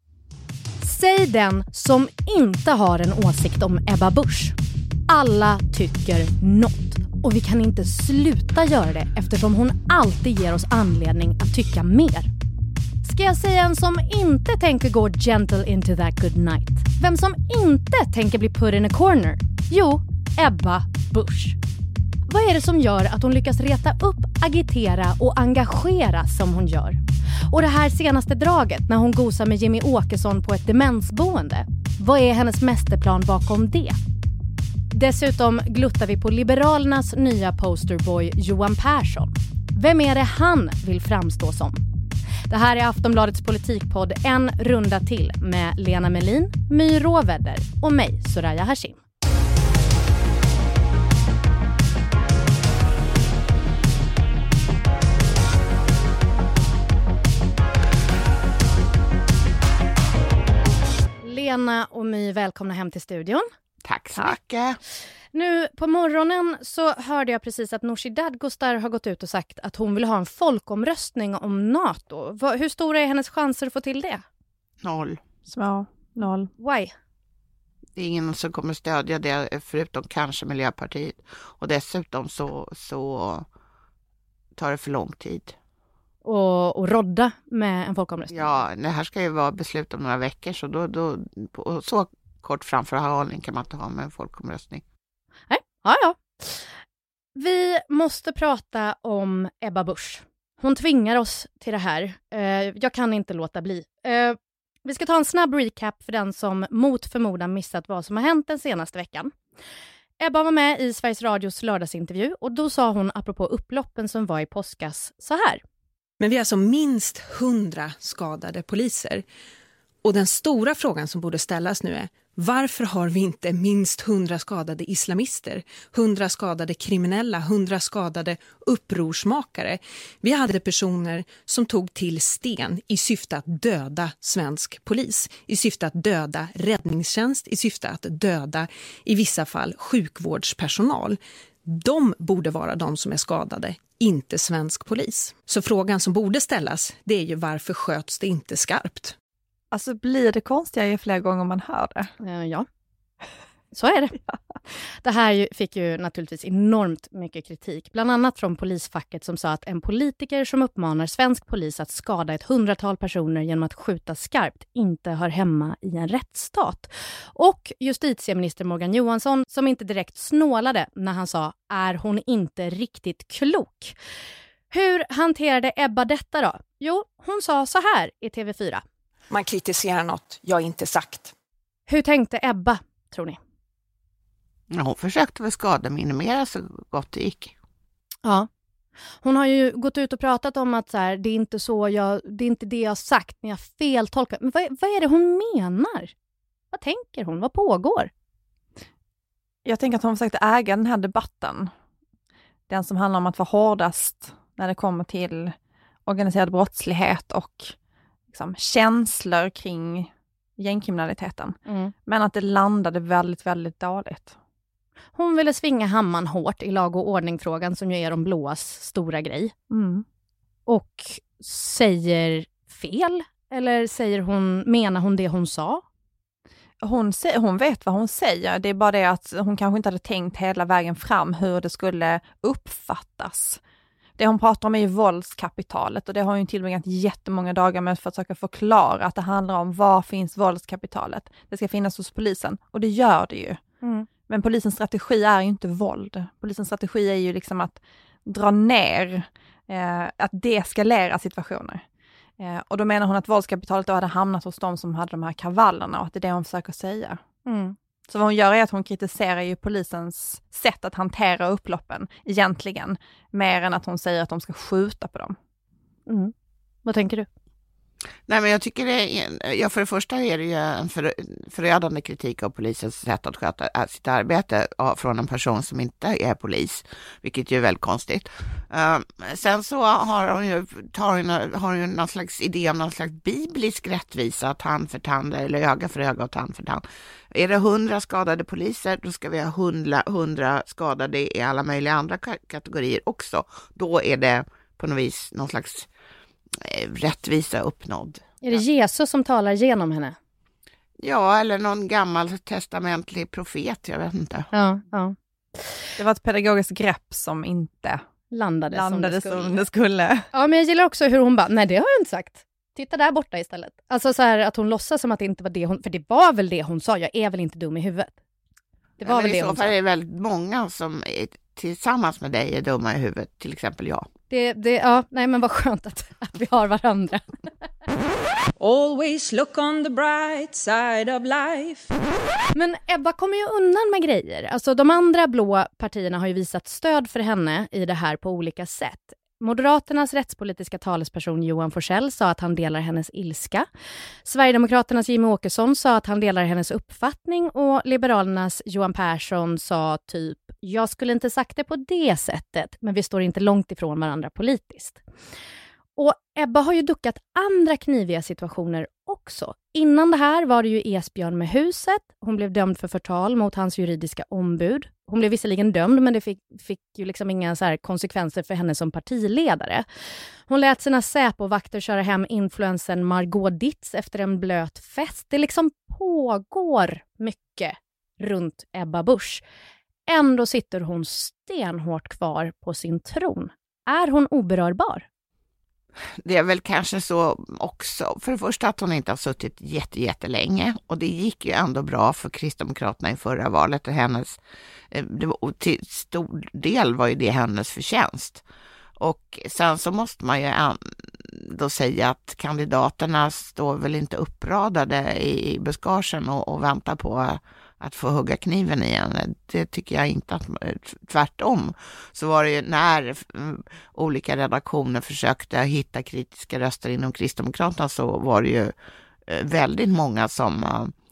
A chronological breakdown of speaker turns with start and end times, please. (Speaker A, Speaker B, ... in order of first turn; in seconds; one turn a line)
Speaker A: 0.8-4.5
Speaker A: 5.1-12.3
Speaker A: 13.0-21.6
Speaker A: 22.3-27.0
Speaker A: 27.5-34.0
Speaker A: 34.9-41.8
Speaker A: 42.5-49.0
Speaker A: 61.2-63.5
Speaker B: 63.8-64.8
Speaker A: 65.3-74.2
Speaker B: 74.8-75.2
Speaker C: 75.5-76.5
Speaker A: 76.6-76.9
Speaker B: 78.0-83.5
Speaker B: 84.6-85.5
Speaker A: 86.2-88.6
Speaker B: 88.3-94.8
Speaker A: 95.5-96.7
Speaker A: 97.4-109.3
Speaker A: 110.2-115.6
Speaker D: 116.2-119.2
Speaker D: 120.0-149.2
Speaker C: 149.7-152.1
Speaker A: 152.2-152.7
Speaker A: 153.7-154.2
Speaker A: 155.0-174.0
Speaker A: 174.7-178.8
Speaker D: 179.3-181.3
Speaker A: 181.9-183.4
Speaker B: 184.7-187.5
Speaker A: 189.2-196.1
Speaker A: 196.7-198.1
Speaker C: 199.7-201.7
Speaker C: 202.7-205.6
Speaker C: 206.1-207.8
Speaker C: 208.3-214.4
Speaker A: 211.7-211.9
Speaker A: 215.2-219.5
Speaker C: 219.7-220.1
Speaker A: 220.7-225.8
Speaker C: 226.8-233.6
Speaker C: 234.2-243.6
Speaker A: 243.8-244.1
Speaker C: 244.3-251.8
Speaker C: 252.4-257.2
Speaker A: 257.5-257.8
Speaker C: 258.1-265.4
Speaker A: 266.1-266.3
Speaker A: 266.9-267.3
Speaker B: 268.3-295.9
Speaker B: 296.6-298.6
Speaker A: 298.4-300.1
Speaker B: 301.0-304.5
Speaker A: 304.5-305.2
Speaker C: 306.0-308.0
Speaker A: 308.3-309.6
Speaker C: 308.7-310.3
Speaker A: 310.3-318.1
Speaker A: 319.0-319.7
Speaker B: 319.0-324.1
Speaker A: 324.3-327.3
Speaker E: 328.7-331.9
Speaker A: 332.5-343.7
Speaker A: 344.2-355.0
Speaker A: 356.0-369.9
Speaker A: 370.5-379.4
Speaker A: 380.1-385.1
Speaker B: 386.2-394.4
Speaker B: 394.9-398.4
Speaker B: 399.0-418.7
Speaker B: 419.3-420.9